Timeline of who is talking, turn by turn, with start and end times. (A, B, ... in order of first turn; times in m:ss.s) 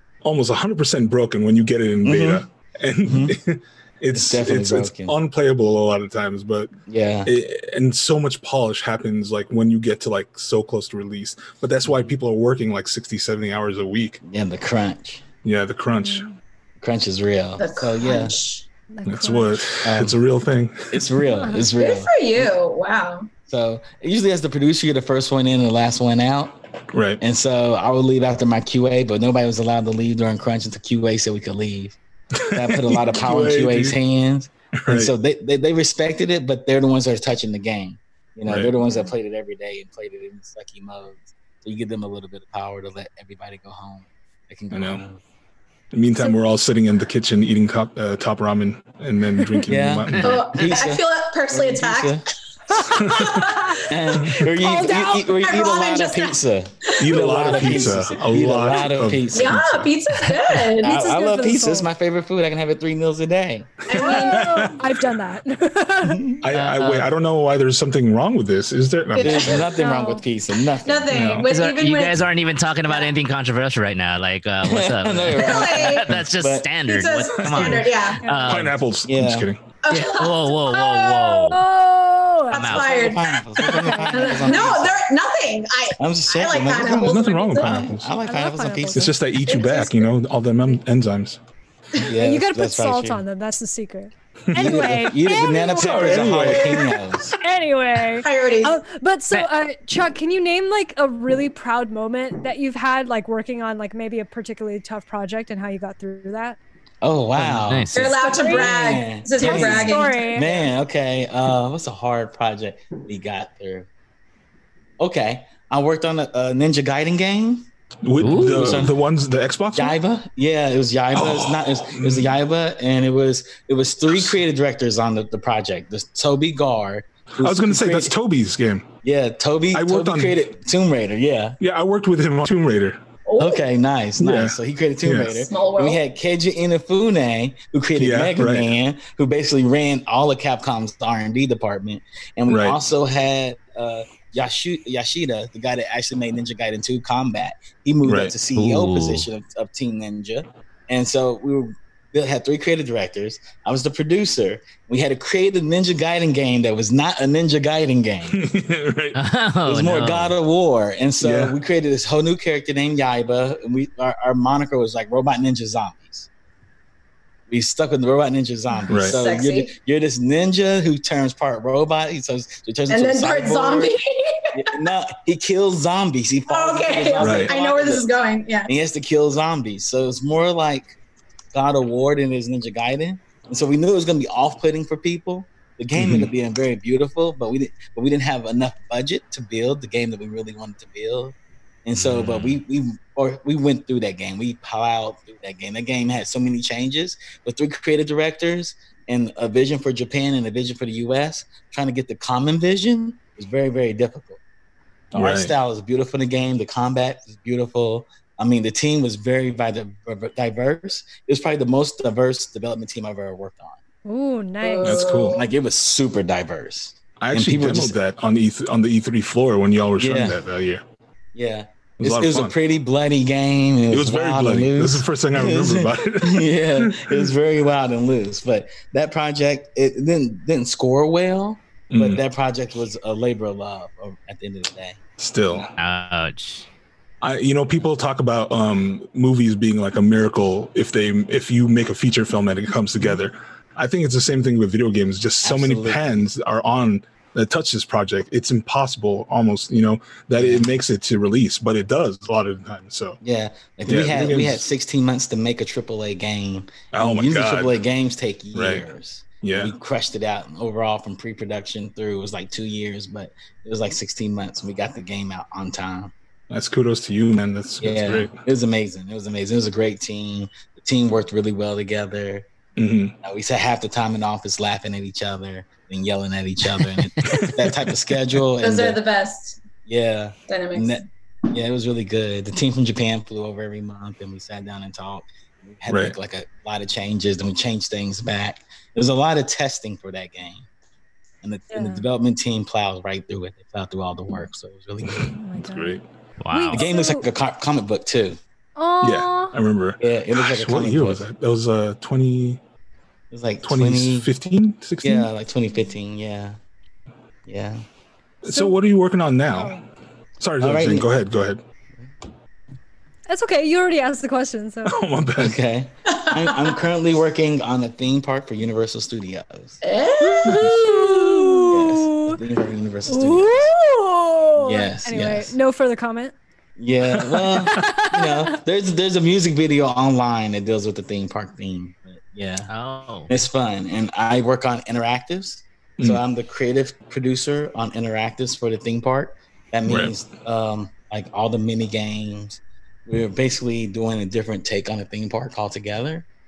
0:00.2-0:14.2 A
0:02.0-0:02.4 B
0:03.0-0:03.4 B
0:04.1-0:05.2 B
0:06.8-0:07.3 B
0:14.2-0:15.2 B
0:15.4-0:16.3 A
0:16.0-0:16.4 C
0:16.8-0:18.3 B
0:17.6-0:18.6 D
0:18.9-0:19.6 C
0:19.0-0:21.0 A
0:19.8-0:20.2 B
0:20.9-0:22.5 B
0:21.4-0:21.6 C
0:21.8-0:23.3 D
0:23.4-0:26.6 B
0:26.9-0:27.2 A
0:27.2-0:45.2 B
0:32.4-0:34.0 A
0:34.8-0:35.1 A
0:38.5-0:38.7 A
0:38.8-0:39.1 C
0:44.7-0:45.0 A
0:45.9-0:50.5 A
0:49.6-0:52.2 B
0:50.1-0:50.4 E
0:50.2-0:52.2 D
0:52.7-0:53.9 D
0:53.0-0:53.5 A
0:53.2-0:53.6 C
0:53.8-0:59.6 B
0:54.6-0:55.3 C
0:54.7-0:56.4 D
0:57.0-0:59.9 A
0:57.5-0:57.9 D
0:59.3-1:01.0 D
1:00.8-1:03.8 B
1:00.8-1:01.9 C
1:03.8-1:04.8 D
1:03.9-1:04.8 A
1:03.9-1:06.2 C
1:06.0-1:06.4 B
1:06.4-1:09.7 A
1:06.5-1:07.1 E
1:09.2-1:10.2 C
1:09.2-1:11.2 B
1:09.2-1:09.6 D
1:10.8-1:12.3 D
1:11.1-1:11.5 A
1:11.5-1:18.7 E
1:12.8-1:13.1 D
1:14.6-1:16.8 B
1:15.3-1:16.2 D
1:16.8-1:18.2 D
1:17.4-1:17.8 B
1:18.2-1:18.7 C
1:18.4-1:19.6 A
1:19.0-1:19.5 B
1:19.8-1:20.8 D
1:19.9-1:21.6 E
1:20.8-1:22.9 C
1:22.5-1:27.9 D
1:22.5-1:23.0 E
1:22.8-1:25.0 B
1:23.6-1:24.7 C
1:26.0-1:29.1 B
1:27.0-1:28.1 A
1:28.2-1:29.1 C
1:28.9-1:31.4 A
1:29.4-1:30.0 D
1:32.0-1:33.2 B
1:32.2-1:36.8 C
1:34.5-1:35.0 A
1:34.6-1:37.4 B
1:35.8-1:36.9 A
1:37.4-1:46.6 C
1:38.2-1:38.8 D
1:47.0-1:53.9 B
1:47.4-1:48.1 E
1:47.9-1:50.7 D
1:48.2-1:48.7 C
1:49.4-1:50.5 C
1:55.0-1:57.6 B
1:58.0-2:00.0 A
1:58.2-1:58.9 E
1:58.3-1:58.9 B
1:59.7-2:08.1 B
2:01.1-2:02.3 A
2:04.1-2:04.4 A
2:07.4-2:08.9 A
2:09.0-2:11.6 B
2:09.7-2:10.4 A
2:11.6-2:13.0 A
2:13.3-2:13.7 D
2:13.4-2:38.4 B
2:14.2-2:15.4 A
2:15.4-2:16.0 D
2:18.0-2:18.7 A
2:22.5-2:22.8 A
2:28.0-2:28.3 A
2:28.5-2:29.3 E
2:38.3-2:39.2 A
2:39.1-2:40.3 E
2:39.6-2:46.3 B
2:41.2-2:41.6 A
2:47.5-2:53.9 B
2:48.9-2:49.2 A
2:49.1-2:49.7 D
2:52.9-2:54.8 D
2:54.5-2:58.1 B
2:56.5-2:58.7 D
2:57.2-2:57.5 A
2:58.7-3:00.9 B
3:01.5-3:24.4 B
3:05.9-3:06.3 A
3:11.9-3:12.6 E
3:25.1-3:25.5 A
3:25.1-3:33.8 B
3:34.0-3:35.0 C
3:34.6-3:35.5 D
3:34.8-3:35.4 A
3:35.3-3:38.0 B
3:37.2-3:40.8 A
3:40.0-3:40.4 B
3:41.3-3:55.0 B
3:42.0-3:42.5 A
3:43.9-3:47.3 A
3:51.9-3:52.2 A
3:55.2-3:55.7 A
3:55.7-3:56.7 E
3:57.2-4:13.2 A
4:05.4-4:06.0 B
4:10.4-4:10.7 B
4:13.2-4:26.1 B
4:13.9-4:14.6 A
4:16.9-4:17.8 A
4:18.5-4:18.8 A
4:19.4-4:19.7 A
4:26.5-4:28.4 A
4:27.8-4:32.5 B
4:32.8-4:33.1 A
4:33.2-4:39.0 B
4:36.8-4:37.4 E
4:37.3-4:37.6 A
4:38.6-4:39.6 D
4:39.8-4:50.7 B
4:40.5-4:41.0 D
4:45.9-4:46.2 A
4:51.4-4:55.3 B
4:51.7-4:52.0 C
4:55.0-4:56.0 A
4:55.3-4:56.0 C
4:56.4-4:56.8 E
4:56.5-4:57.2 C
4:56.7-4:58.4 B
4:58.8-4:59.6 C
4:59.0-5:02.6 A
5:00.0-5:01.2 B
5:03.3-5:04.3 B
5:03.6-5:05.3 A
5:05.0-5:06.6 B
5:07.4-5:07.8 B
5:08.4-5:09.8 A
5:08.5-5:08.7 C
5:09.5-5:09.8 C
5:10.4-5:11.6 A
5:10.6-5:11.1 B
5:13.3-5:15.0 C
5:14.8-5:15.6 A
5:15.4-5:19.8 B
5:16.1-5:16.8 D
5:19.8-5:21.6 D
5:20.2-5:22.4 C
5:20.4-5:20.7 A
5:21.7-5:23.7 B
5:23.1-5:26.3 C
5:24.6-5:25.5 B
5:26.8-5:32.7 B
5:27.2-5:27.9 A
5:27.5-5:28.5 C
5:32.7-5:33.3 E
5:33.3-5:46.2 B
5:39.8-5:40.1 A